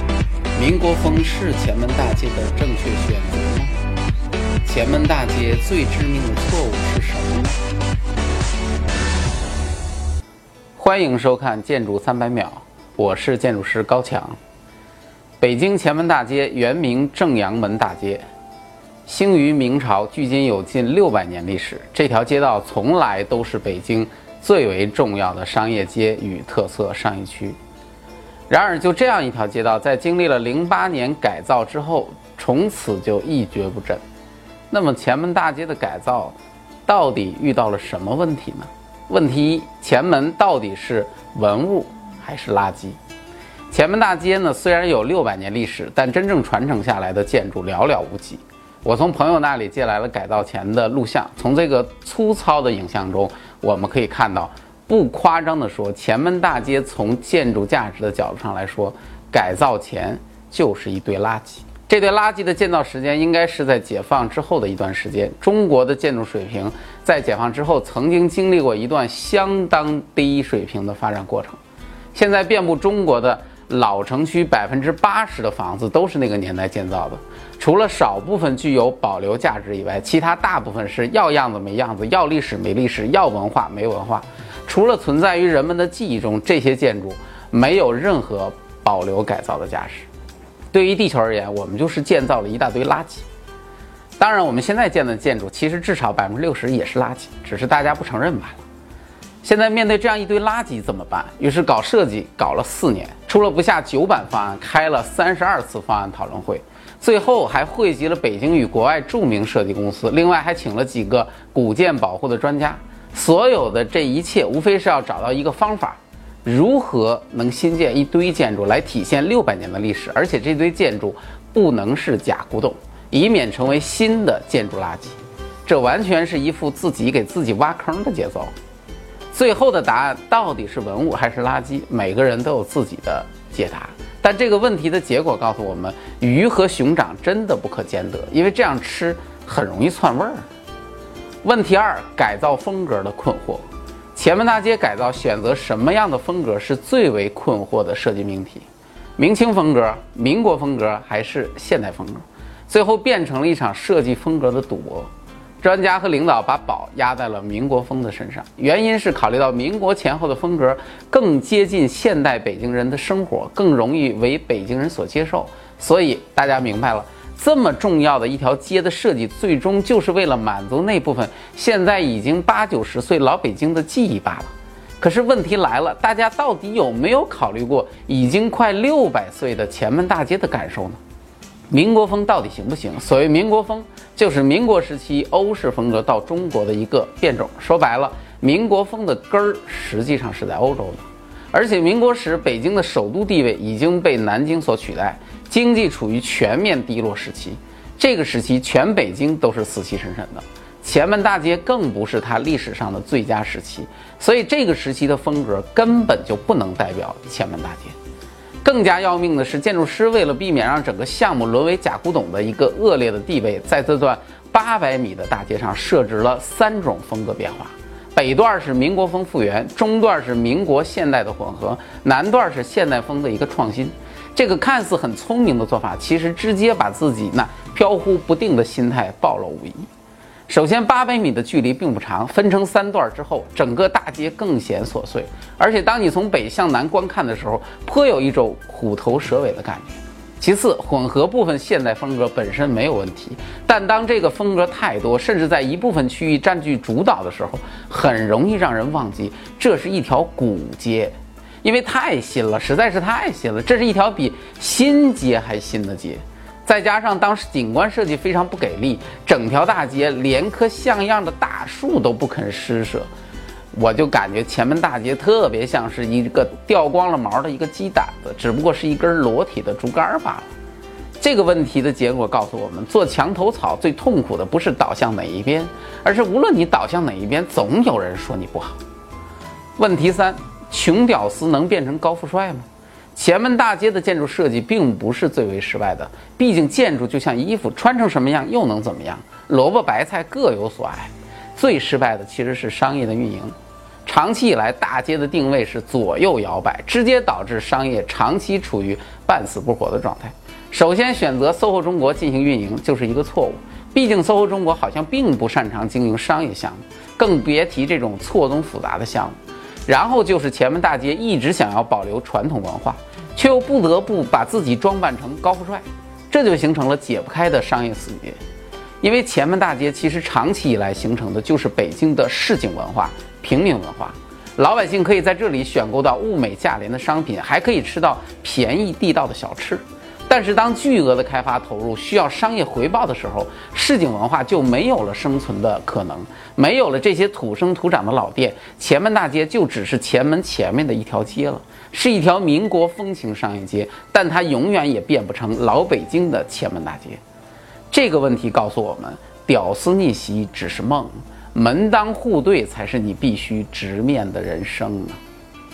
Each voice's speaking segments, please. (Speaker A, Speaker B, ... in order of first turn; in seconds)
Speaker A: 0.6-3.7, 4.7-7.6, 10.8-14.4, 15.4-18.2, 19.1-27.6, 28.5-34.0, 34.7-36.4, 36.9-43.0, 43.7-71.6, 72.1-90.1, 90.7-93.3, 94.2-98.6, 99.4-128.5, 129.3-140.4, 141.4-148.7, 149.2-155.1, 155.6-181.0, 181.7-207.9, 208.6-229.9, 230.5-263.1, 263.7-270.5, 271.2-278.8, 279.8-293.6, 294.1-309.4, 309.9-318.4, 319.0-347.2, 347.9-355.2